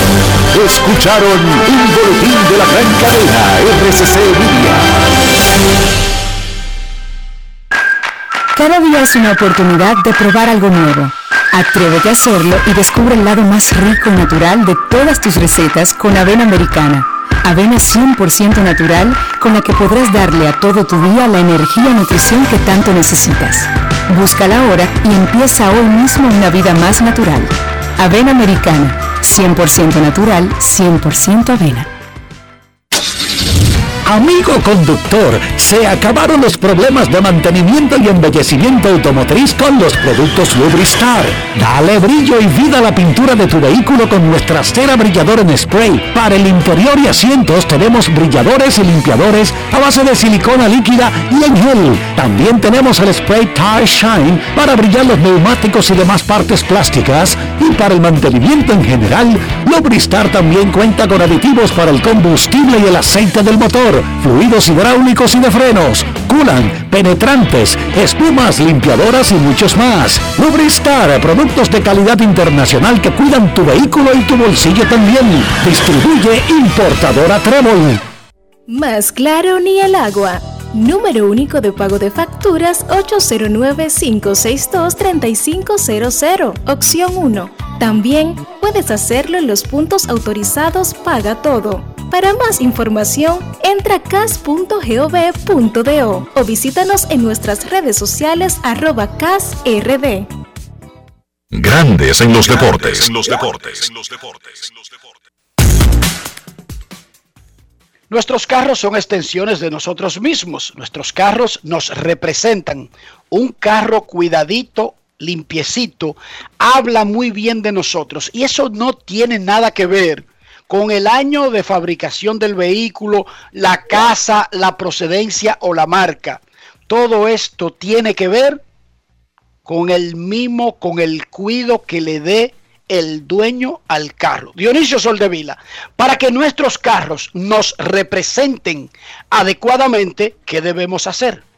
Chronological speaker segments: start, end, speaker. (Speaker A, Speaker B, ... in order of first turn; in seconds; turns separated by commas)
Speaker A: 0.5-4.9, Speaker B: 8.6-31.9, Speaker C: 34.0-78.0, Speaker D: 78.7-80.3, Speaker D: 80.8-100.2, Speaker E: 101.5-105.1, Speaker F: 108.1-128.6, Speaker F: 129.6-141.4